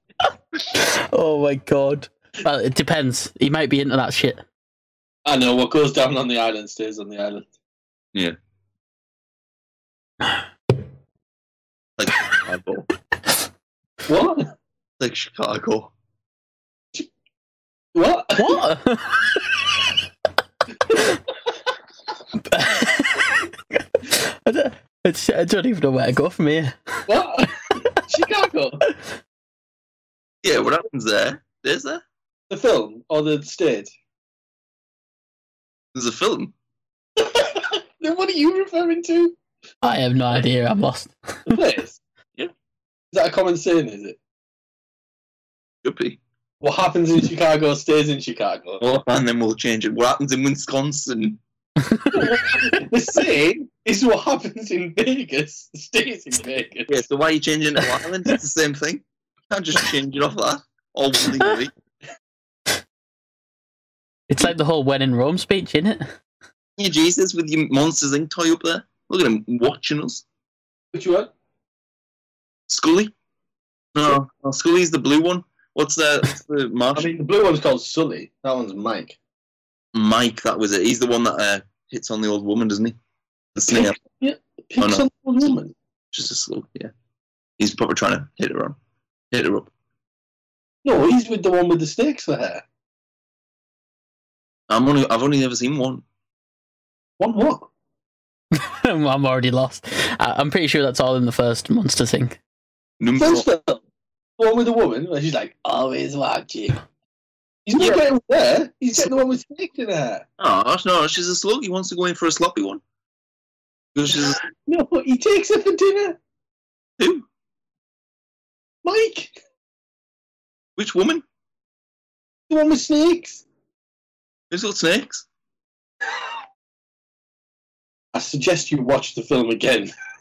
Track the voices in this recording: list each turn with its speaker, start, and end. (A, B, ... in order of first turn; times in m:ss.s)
0:00.7-0:04.4 A
0:05.2-0:07.5 B
0:12.0-0:12.9 C
0:14.0-0:14.5 B
0:15.0-0:15.9 C
0:17.9-0:18.6 B
0:18.4-0:19.5 A
0:20.9-0:21.1 B
0:22.4-0:27.0 A
0:27.1-0:28.8 B
0:30.4-0:32.0 C
0:32.5-0:33.9 B
0:35.9-0:36.5 C
0:37.2-0:39.4 B
0:39.8-0:41.5 A
0:41.5-0:42.0 B
0:43.1-0:44.2 B
0:45.8-0:46.2 C
0:46.6-0:48.8 B
0:48.8-0:51.4 C
0:51.9-0:52.3 A
0:52.1-0:56.9 B
0:56.9-1:01.7 C
1:04.3-1:06.1 A
1:06.8-1:10.2 C
1:10.9-1:11.3 B
1:12.7-1:13.1 C
1:13.9-1:17.1 C
1:16.9-1:19.2 B
1:19.9-1:23.0 C
1:23.5-1:24.0 C
1:23.7-1:25.7 B
1:24.8-1:25.0 C
1:26.1-1:26.9 C
1:27.6-1:28.8 C
1:29.3-1:29.7 C
1:30.8-1:32.6 B
1:34.7-1:36.0 C
1:37.2-1:37.7 B
1:38.5-1:42.4 A
1:43.0-1:43.4 C
1:43.2-1:43.8 B
1:44.4-1:46.8 B
1:47.6-1:50.2 B
1:50.4-1:52.8 C
1:53.9-1:54.4 C
1:54.3-1:56.2 B
1:57.0-1:57.3 C
1:58.8-1:59.4 B
2:00.8-2:01.2 C
2:02.5-2:03.4 B
2:04.5-2:05.2 C
2:08.1-2:09.9 B